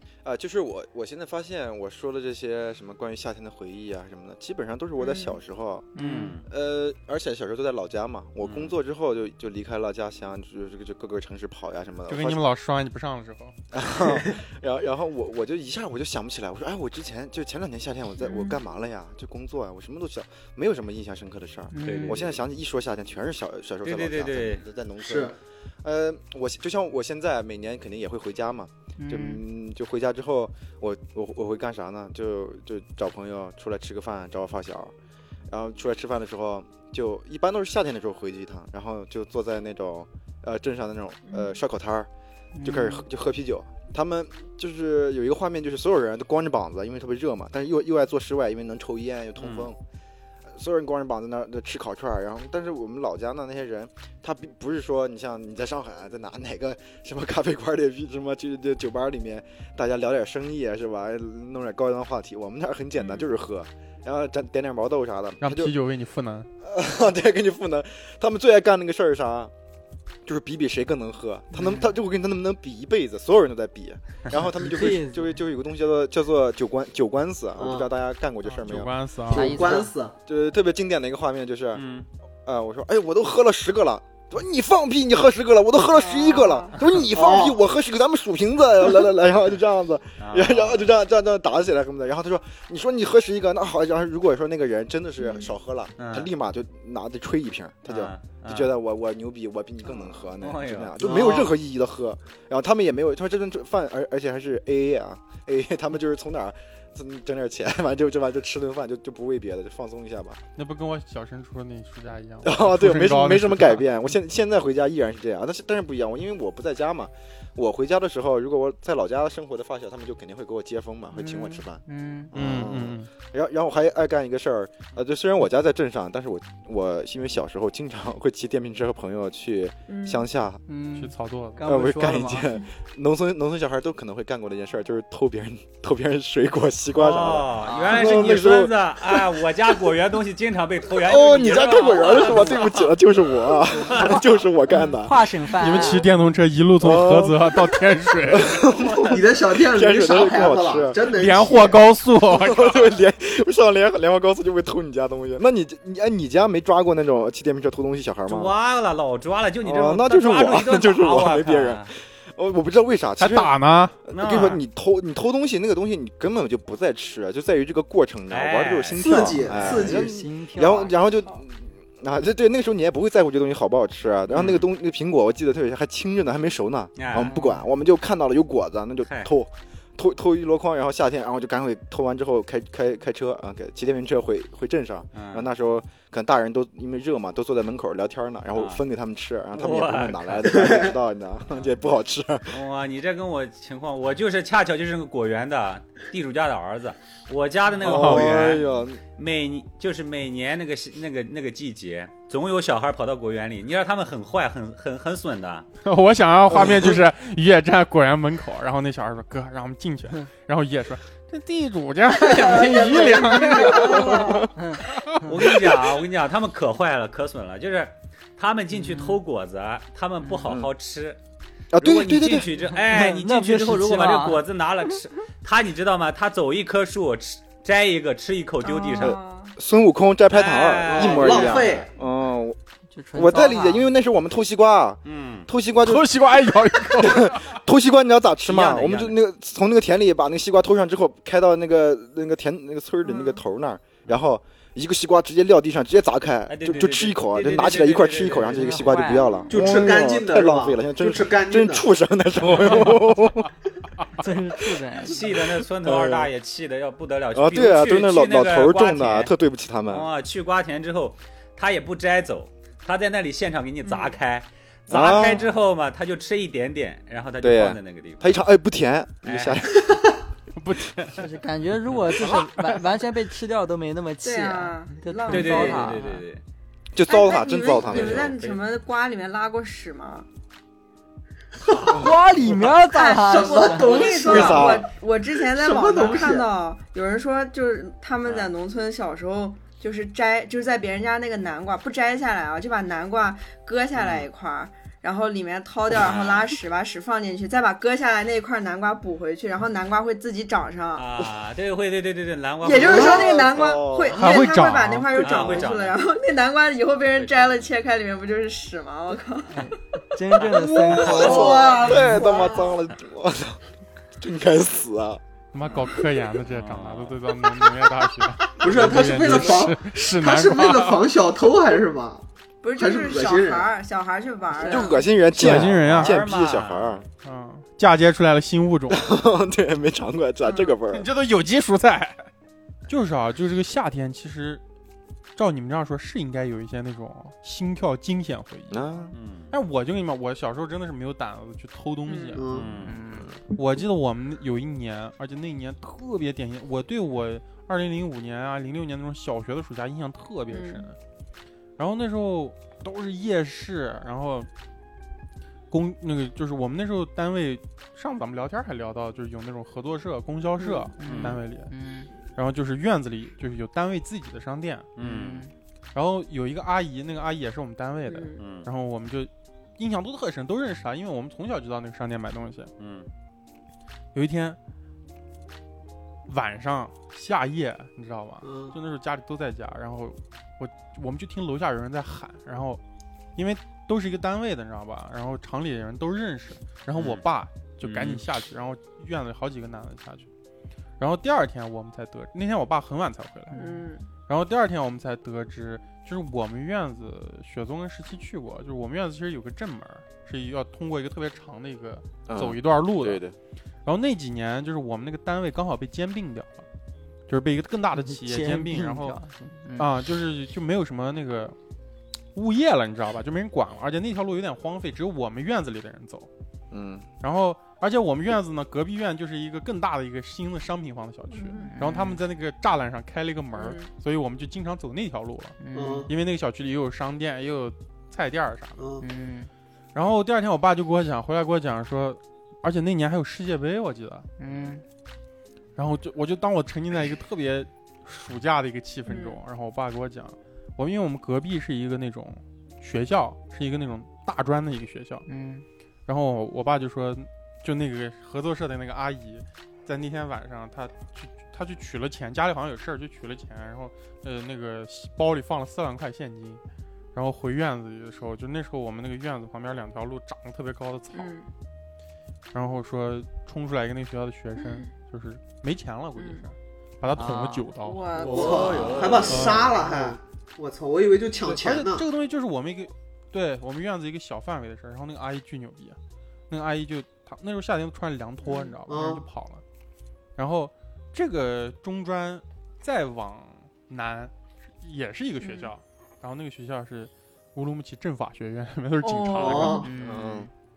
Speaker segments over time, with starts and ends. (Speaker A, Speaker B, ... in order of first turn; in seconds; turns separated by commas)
Speaker A: 0.2-5.9, Speaker B: 5.0-5.4, Speaker C: 5.9-6.3, Speaker D: 6.0-6.5, Speaker A: 6.5-12.4, Speaker D: 8.4-8.7, Speaker E: 12.1-13.5, Speaker A: 13.7-34.9, Speaker B: 18.2-18.5, Speaker C: 21.7-22.2, Speaker D: 21.8-22.4, Speaker D: 23.8-24.6, Speaker F: 25.0-25.3, Speaker C: 29.0-29.4, Speaker A: 35.5-42.1, Speaker B: 41.3-41.6, Speaker C: 42.5-43.0, Speaker A: 42.6-49.8, Speaker D: 49.4-49.7, Speaker A: 50.5-65.7, Speaker B: 63.0-63.3, Speaker E: 65.4-66.5, Speaker A: 66.6-69.5, Speaker A: 70.2-78.9, Speaker C: 71.5-71.9, Speaker C: 74.5-75.3, Speaker F: 77.6-77.9, Speaker E: 78.5-79.8, Speaker F: 79.3-80.1, Speaker C: 79.3-79.9, Speaker A: 80.3-81.8, Speaker D: 81.7-82.1, Speaker A: 82.5-110.4, Speaker B: 85.9-86.8, Speaker F: 87.1-87.6, Speaker D: 90.2-90.9, Speaker B: 95.2-95.5, Speaker D: 96.0-96.3, Speaker D: 97.8-98.7, Speaker D: 100.0-101.3, Speaker F: 101.0-101.5, Speaker E: 110.5-113.8, Speaker A: 112.4-130.6, Speaker C: 121.1-122.3, Speaker E: 122.3-123.1, Speaker B: 129.9-130.2, Speaker C: 130.7-132.5, Speaker E: 130.9-131.7, Speaker A: 131.6-139.4, Speaker D: 136.9-142.9, Speaker C: 137.6-138.0, Speaker A: 140.9-145.3, Speaker D: 143.8-144.2, Speaker C: 145.0-146.1, Speaker E: 145.6-148.6, Speaker A: 146.8-151.0, Speaker D: 148.7-149.2, Speaker F: 149.0-151.8, Speaker E: 151.0-152.9, Speaker A: 152.3-158.5, Speaker D: 158.2-161.9, Speaker A: 159.6-163.5, Speaker E: 163.2-164.0, Speaker A: 164.1-192.6, Speaker D: 164.1-164.6, Speaker D: 168.3-169.7, Speaker F: 169.0-170.1, Speaker C: 169.4-171.0, Speaker D: 174.3-174.7, Speaker D: 177.0-177.3, Speaker C: 177.2-177.6, Speaker D: 179.0-179.3, Speaker D: 185.1-185.5, Speaker D: 188.5-188.8, Speaker D: 189.5-190.8, Speaker F: 190.5-190.9, Speaker D: 192.5-205.7, Speaker A: 197.8-199.0, Speaker E: 197.8-198.4, Speaker E: 205.8-215.7, Speaker A: 206.5-207.0, Speaker D: 212.1-214.2, Speaker F: 212.5-213.9, Speaker C: 213.8-215.2, Speaker A: 214.2-214.5, Speaker D: 215.2-221.2, Speaker C: 218.7-219.2, Speaker A: 220.4-220.7, Speaker A: 221.7-222.5, Speaker D: 221.8-229.2, Speaker C: 222.7-224.4, Speaker B: 228.6-229.6, Speaker A: 229.0-232.6, Speaker D: 230.3-231.9, Speaker F: 230.9-231.9, Speaker C: 232.9-233.9, Speaker A: 233.1-253.5, Speaker D: 235.0-235.5, Speaker E: 235.8-237.6, Speaker D: 238.4-239.2, Speaker B: 243.0-243.4, Speaker D: 246.5-248.7, Speaker C: 248.6-249.5, Speaker F: 249.5-251.8, Speaker C: 254.2-255.2, Speaker D: 255.0-259.3, Speaker A: 255.8-256.3, Speaker A: 257.3-260.1, Speaker D: 259.9-268.4, Speaker B: 263.8-264.1, Speaker A: 264.9-265.5, Speaker A: 267.4-270.0, Speaker D: 269.2-269.7, Speaker E: 270.6-271.3, Speaker C: 271.1-276.2, Speaker E: 272.2-272.9, Speaker B: 274.2-275.9, Speaker D: 275.3-276.4, Speaker A: 276.9-278.3, Speaker B: 277.1-280.2, Speaker D: 277.8-278.6, Speaker F: 281.7-282.1, Speaker C: 281.8-284.0, Speaker B: 282.7-301.1, Speaker F: 283.3-284.8, Speaker A: 284.2-284.9, Speaker F: 285.4-286.5, Speaker D: 288.2-288.5, Speaker D: 293.9-294.3, Speaker D: 295.9-296.6, Speaker D: 300.9-303.6, Speaker B: 302.6-309.7, Speaker A: 302.7-304.4, Speaker E: 304.1-305.4, Speaker D: 305.1-306.0, Speaker A: 305.4-305.7, Speaker D: 307.1-307.7, Speaker C: 309.5-311.8, Speaker B: 310.9-312.8, Speaker A: 311.0-313.6, Speaker A: 314.2-315.2, Speaker E: 315.5-321.0, Speaker D: 316.5-317.3, Speaker F: 318.6-322.2, Speaker B: 322.6-325.1, Speaker F: 322.8-323.7, Speaker A: 324.5-327.1, Speaker E: 325.3-326.2, Speaker D: 325.4-327.0, Speaker E: 327.2-329.0, Speaker A: 328.9-331.1, Speaker B: 330.4-330.8, Speaker E: 330.9-332.2, Speaker E: 332.9-334.6, Speaker E: 335.4-338.8, Speaker A: 338.7-339.1, Speaker D: 339.1-339.5, Speaker E: 339.5-342.5, Speaker B: 342.1-342.4, Speaker F: 342.4-342.7, Speaker D: 342.5-343.0, Speaker C: 342.8-343.4, Speaker E: 343.5-350.9, Speaker B: 350.5-350.9, Speaker E: 351.8-354.5, Speaker E: 355.7-361.7, Speaker B: 360.6-360.9, Speaker C: 361.0-362.1, Speaker D: 361.0-361.4, Speaker E: 362.3-364.9, Speaker D: 364.9-365.4, Speaker C: 365.0-365.5, Speaker E: 365.9-372.7, Speaker B: 368.1-368.4, Speaker D: 368.4-368.7, Speaker D: 372.8-373.1, Speaker E: 374.1-374.6, Speaker E: 376.3-382.8, Speaker F: 378.4-378.8, Speaker E: 383.4-390.3, Speaker D: 386.9-387.2, Speaker D: 387.8-388.2, Speaker E: 391.0-393.6, Speaker C: 393.5-393.8, Speaker B: 393.5-394.1, Speaker E: 394.3-403.2, Speaker A: 402.3-403.3, Speaker E: 403.8-406.6, Speaker E: 407.3-409.2, Speaker C: 408.0-409.9, Speaker E: 409.8-411.6, Speaker E: 412.3-416.3, Speaker A: 416.7-417.1, Speaker E: 417.2-428.8, Speaker B: 421.3-421.7, Speaker C: 421.6-422.2, Speaker B: 423.5-423.9, Speaker C: 425.6-426.1, Speaker F: 425.7-426.1, Speaker F: 428.8-429.0, Speaker C: 429.0-429.5, Speaker E: 429.9-434.3, Speaker C: 434.4-434.8, Speaker E: 435.8-445.2, Speaker B: 439.1-439.4, Speaker C: 445.3-445.6, Speaker E: 446.1-456.6, Speaker E: 457.1-461.3, Speaker B: 461.1-461.5, Speaker E: 462.5-468.1, Speaker B: 464.6-464.9, Speaker B: 466.1-466.4, Speaker C: 467.1-467.7, Speaker B: 467.8-468.9, Speaker D: 468.2-469.6, Speaker F: 468.3-472.1, Speaker A: 468.3-469.3, Speaker E: 469.3-470.2, Speaker E: 471.4-476.0, Speaker E: 476.5-479.6, Speaker B: 478.4-478.8, Speaker F: 478.9-479.2, Speaker E: 480.4-489.9, Speaker B: 485.4-485.7, Speaker B: 489.0-489.9, Speaker F: 489.4-489.8, Speaker C: 489.8-490.5, Speaker A: 490.0-490.5